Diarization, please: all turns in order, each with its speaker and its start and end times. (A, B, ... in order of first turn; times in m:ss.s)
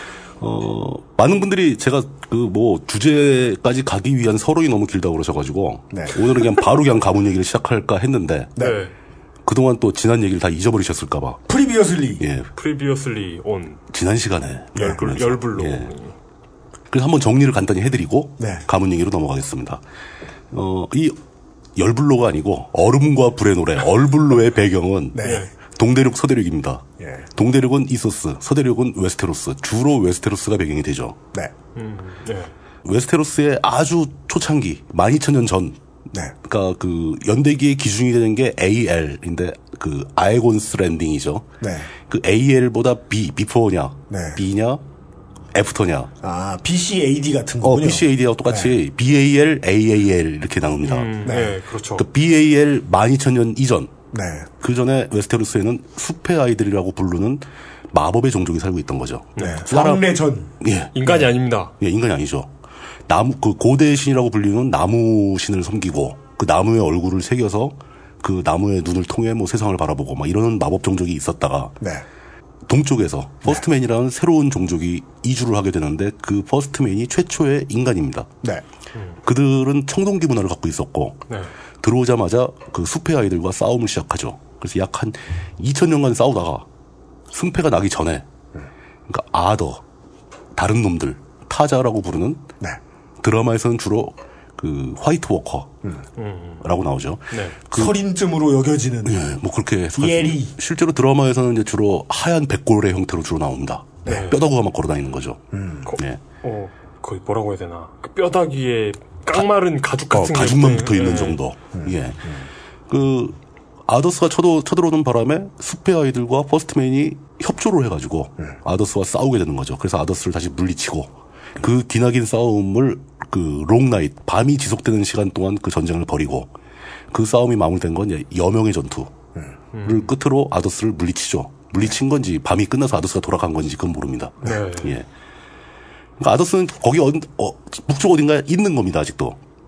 0:00.4-0:08.5 A
0:05.9-0:06.2 B
0:08.6-0:08.9 C
0:09.4-0:11.4 A
0:11.5-0:12.2 B
0:12.2-0:12.5 A
0:12.5-0:13.8 C
0:13.9-0:15.9 A
0:14.8-0:16.1 C
0:16.9-0:19.8 A
0:18.4-0:18.6 B
0:20.5-0:21.2 A
0:21.8-0:31.2 A
0:25.1-0:25.5 B
0:25.2-0:25.5 C
0:27.0-0:27.3 B
0:31.7-0:32.5 C
0:32.8-0:35.8 A
0:36.4-0:41.5 A
0:41.6-0:41.9 B
0:42.1-0:44.8 A
0:44.1-0:44.4 B
0:45.5-0:46.1 A
0:46.2-0:48.7 B
0:47.6-0:51.3 A
0:50.9-0:52.0 C
0:51.2-0:51.6 B
0:51.9-0:53.9 A
0:54.1-0:54.5 B
0:54.6-1:01.1 A
0:59.4-0:59.6 C
0:59.4-1:00.5 B
1:00.9-1:01.7 C
1:01.8-1:02.5 A
1:03.1-1:11.8 A
1:11.8-1:12.0 B
1:12.7-1:18.3 A
1:19.2-1:21.2 A
1:21.8-1:26.6 A
1:27.3-1:28.2 A
1:29.1-1:29.8 A
1:30.5-1:32.4 A
1:33.2-1:35.7 A
1:36.2-1:36.6 C
1:36.6-1:38.0 A
1:37.3-1:37.6 C
1:37.7-1:39.2 B
1:39.0-1:46.2 A
1:40.0-1:40.5 B
1:44.1-1:44.4 C
1:45.5-1:45.9 B
1:45.8-1:51.4 C
1:50.1-2:06.5 A
1:51.8-1:52.4 B
2:07.1-2:09.1 A
2:09.7-2:10.1 C
2:09.8-2:15.0 A
2:14.4-2:14.9 C
2:16.2-2:19.4 A